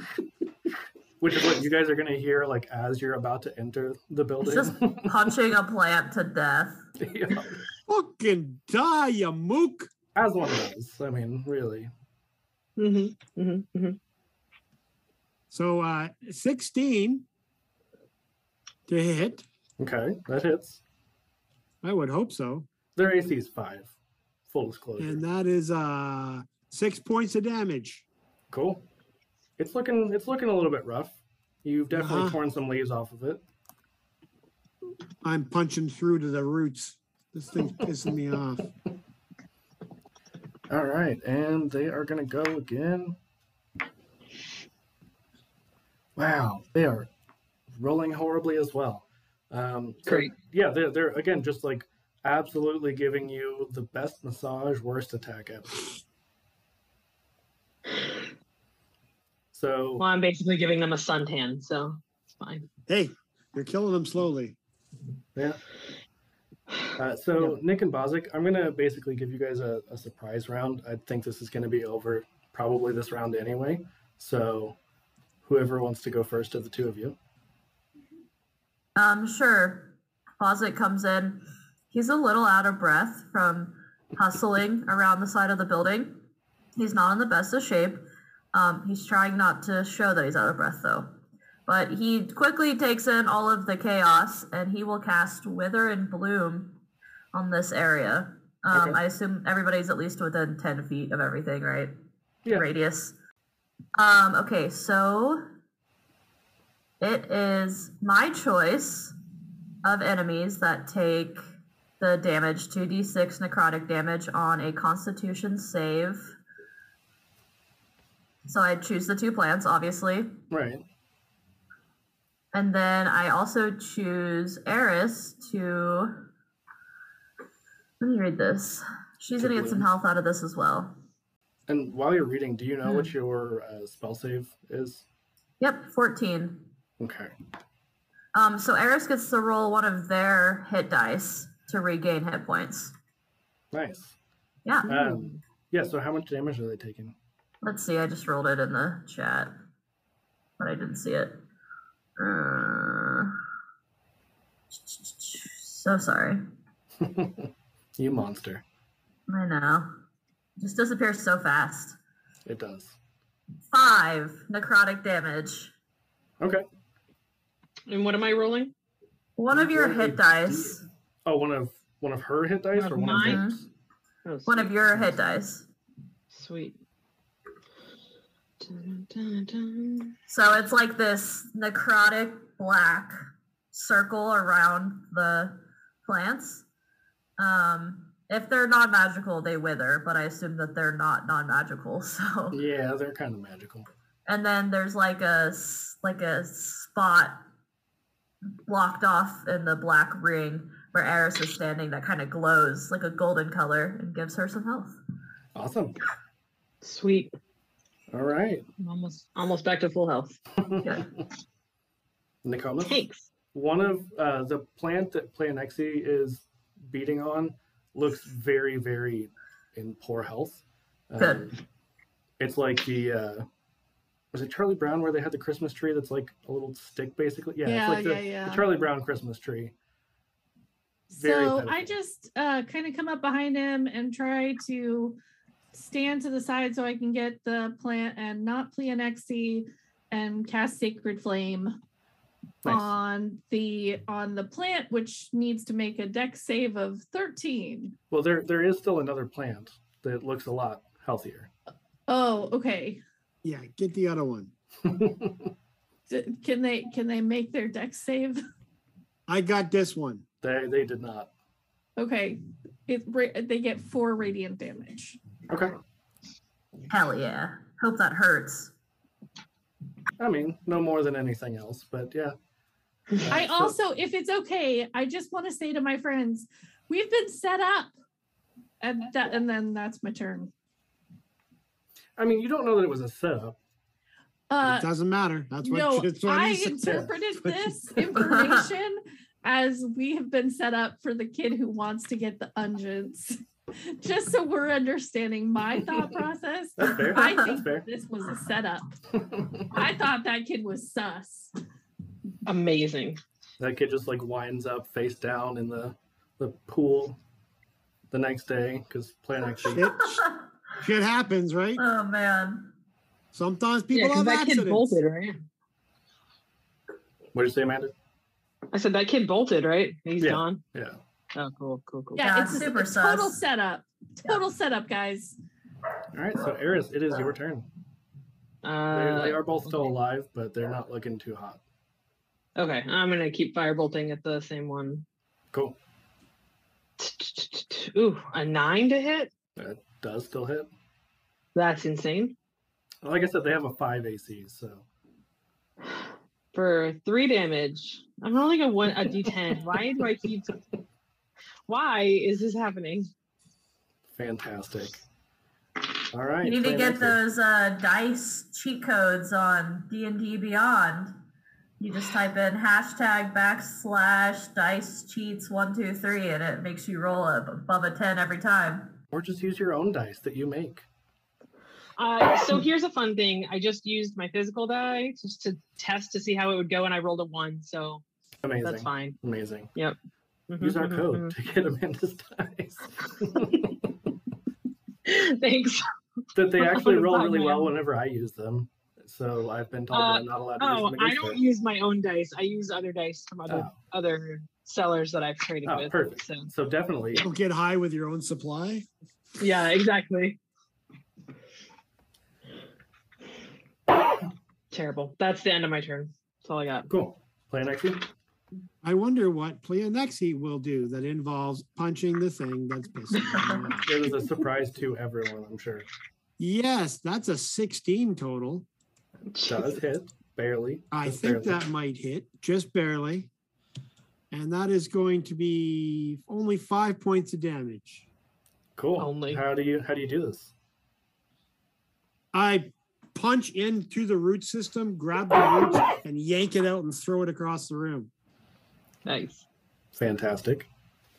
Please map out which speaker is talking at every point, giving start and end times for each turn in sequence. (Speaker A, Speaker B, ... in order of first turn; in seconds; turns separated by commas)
Speaker A: 1.2-5.1, Speaker B: 4.4-6.8, Speaker A: 7.0-7.6, Speaker C: 7.9-9.9, Speaker A: 10.1-11.9, Speaker D: 12.8-14.0, Speaker C: 15.5-17.2, Speaker C: 18.9-19.4, Speaker A: 19.8-20.8, Speaker C: 21.8-22.7, Speaker A: 22.9-23.9, Speaker A: 24.5-25.2, Speaker C: 25.0-28.0, Speaker A: 28.5-28.8, Speaker A: 29.6-33.4, Speaker C: 31.9-32.4, Speaker C: 35.2-38.7, Speaker A: 40.7-43.2, Speaker A: 46.1-47.1, Speaker A: 47.8-55.8, Speaker D: 50.0-50.3, Speaker A: 59.5-60.0, Speaker D: 60.0-62.7, Speaker C: 62.9-64.6, Speaker A: 67.0-74.8, Speaker A: 75.4-77.2, Speaker B: 79.0-86.2, Speaker B: 86.8-91.1, Speaker B: 91.7-96.8, Speaker B: 97.3-101.9, Speaker B: 102.5-103.2, Speaker B: 104.0-105.4, Speaker B: 107.0-109.1, Speaker B: 109.8-111.4, Speaker B: 112.0-116.3, Speaker B: 118.5-120.3, Speaker A: 120.5-120.8, Speaker B: 122.5-126.1, Speaker B: 128.0-130.9, Speaker A: 129.4-129.9, Speaker A: 131.7-135.0, Speaker B: 135.6-136.7, Speaker A: 137.0-137.3, Speaker B: 138.3-142.9, Speaker A: 143.7-144.2, Speaker B: 144.6-145.0, Speaker A: 144.8-147.2, Speaker B: 147.6-149.5, Speaker B: 150.6-151.4, Speaker B: 152.2-153.3, Speaker B: 154.7-156.4, Speaker A: 157.0-158.6, Speaker B: 159.3-159.9, Speaker B: 160.6-162.0, Speaker A: 162.4-162.9, Speaker B: 163.7-165.7, Speaker D: 167.9-168.7, Speaker B: 169.4-170.8, Speaker A: 169.5-173.6, Speaker D: 172.8-173.4, Speaker B: 173.2-173.6, Speaker D: 174.2-174.7, Speaker B: 174.5-175.7, Speaker D: 176.3-176.8, Speaker D: 178.6-180.1, Speaker B: 180.3-183.2, Speaker B: 183.7-186.6, Speaker B: 187.4-192.6, Speaker A: 192.5-193.9, Speaker B: 194.3-197.4, Speaker B: 198.7-204.9, Speaker A: 205.5-205.9, Speaker D: 206.8-207.3, Speaker A: 208.1-208.6, Speaker D: 208.8-210.4, Speaker A: 212.4-212.9, Speaker D: 212.8-213.3, Speaker A: 213.5-221.6, Speaker B: 221.2-221.5, Speaker A: 222.4-223.4, Speaker A: 224.3-229.7, Speaker E: 227.6-228.7, Speaker E: 231.1-235.2, Speaker A: 231.2-231.9, Speaker E: 235.7-241.8, Speaker A: 242.6-242.9, Speaker E: 242.6-247.9, Speaker A: 248.1-251.5, Speaker E: 252.1-253.0, Speaker C: 253.4-254.5, Speaker A: 254.8-255.5, Speaker E: 256.1-258.4, Speaker C: 259.3-260.2, Speaker A: 260.4-261.3, Speaker E: 262.0-265.2, Speaker A: 265.5-265.7, Speaker B: 266.9-268.7, Speaker A: 270.2-272.4, Speaker A: 273.2-273.8, Speaker E: 273.3-277.9, Speaker E: 278.8-280.5, Speaker A: 282.2-283.6, Speaker E: 284.5-284.9, Speaker C: 284.6-287.8, Speaker E: 285.6-298.9, Speaker B: 288.1-288.7, Speaker A: 296.8-297.9, Speaker A: 299.2-299.7, Speaker E: 299.7-301.5, Speaker D: 302.4-303.2, Speaker A: 303.6-307.2, Speaker A: 308.1-309.8, Speaker C: 309.6-310.3, Speaker B: 309.7-310.4, Speaker C: 310.8-311.8, Speaker B: 311.8-312.7, Speaker C: 313.3-315.0, Speaker D: 313.9-315.4, Speaker A: 317.3-317.9, Speaker D: 318.7-320.6, Speaker A: 320.2-321.0, Speaker D: 321.3-322.4, Speaker E: 322.2-325.4, Speaker B: 322.2-323.4, Speaker A: 326.1-327.7, Speaker D: 328.6-329.7, Speaker A: 328.9-331.6, Speaker D: 332.6-335.0, Speaker D: 337.0-339.3, Speaker A: 339.6-340.7, Speaker D: 341.5-342.3, Speaker A: 343.0-344.8, Speaker D: 345.9-350.5, Speaker D: 351.7-353.1, Speaker A: 354.1-355.0, Speaker A: 356.1-357.2, Speaker B: 356.4-361.1, Speaker B: 361.8-368.9, Speaker A: 369.1-370.8, Speaker D: 372.0-378.0, Speaker A: 378.4-379.7, Speaker D: 378.6-379.2, Speaker D: 380.5-381.3, Speaker A: 380.6-383.7, Speaker D: 385.1-385.8, Speaker A: 386.3-391.4, Speaker D: 386.6-387.7, Speaker D: 389.9-396.5, Speaker A: 393.5-393.7, Speaker A: 395.6-397.2, Speaker C: 397.2-398.9, Speaker D: 399.4-400.4, Speaker D: 404.7-406.9, Speaker A: 406.9-408.1, Speaker C: 408.8-413.8, Speaker A: 413.8-415.9, Speaker C: 416.4-418.6, Speaker D: 419.3-419.8, Speaker A: 419.4-421.6, Speaker C: 420.9-423.3, Speaker C: 424.3-428.0, Speaker A: 428.8-430.5, Speaker D: 429.0-429.4, Speaker C: 432.3-438.1, Speaker D: 439.1-439.4, Speaker A: 439.9-440.7